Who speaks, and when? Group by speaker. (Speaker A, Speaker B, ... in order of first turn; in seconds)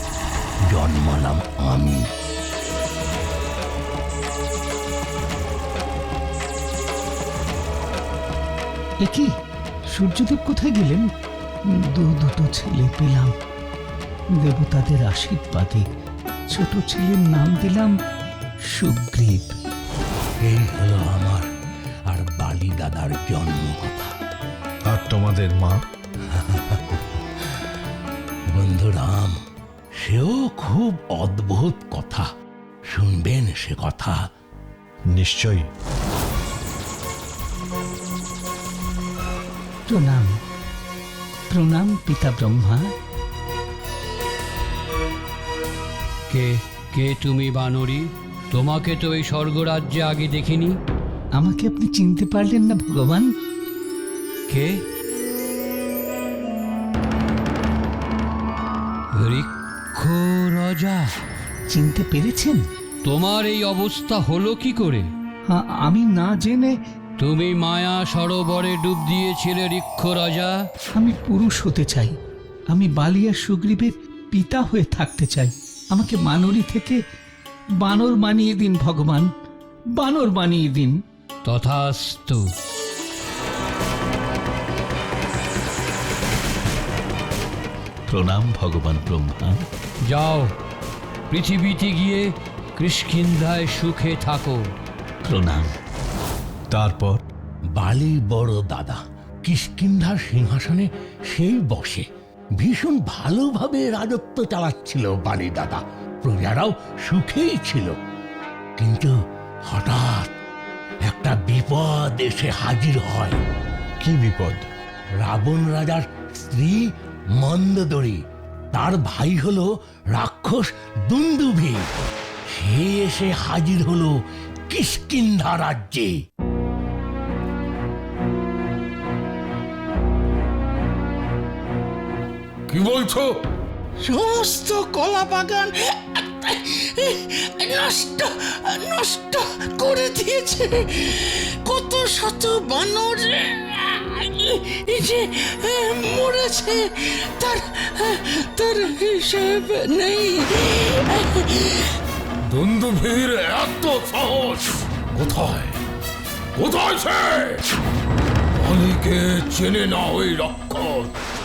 Speaker A: 0.7-2.1, 20.4-21.5, 22.1-24.1, 28.5-29.4, 30.0-32.3, 32.9-34.2, 97.7-102.0, 102.6-108.0, 108.8-109.1, 109.7-110.3, 111.0-113.4, 115.2-116.9, 117.4-118.2, 118.7-121.9, 122.5-124.1, 124.7-126.1
Speaker B: 9.0-9.3, 9.9-11.1, 11.9-13.3, 14.4-15.9, 16.5-17.9, 18.7-19.6, 39.9-40.4, 41.5-42.9, 51.4-53.3, 61.7-62.6, 65.5-66.8, 71.0-72.1, 72.7-77.0, 77.8-79.3, 80.0-81.0, 88.1-89.6, 95.2-95.7
Speaker C: 24.9-25.8, 35.1-35.6, 96.7-97.2, 114.0-114.7
Speaker D: 46.3-50.8, 54.5-54.8, 59.2-61.1, 63.0-65.1, 67.2-70.5, 81.5-82.4, 90.1-90.5, 91.3-94.6
Speaker E: 132.7-133.3, 152.5-155.7, 156.6-157.6, 158.6-161.1
Speaker F: 134.0-141.0, 141.6-151.2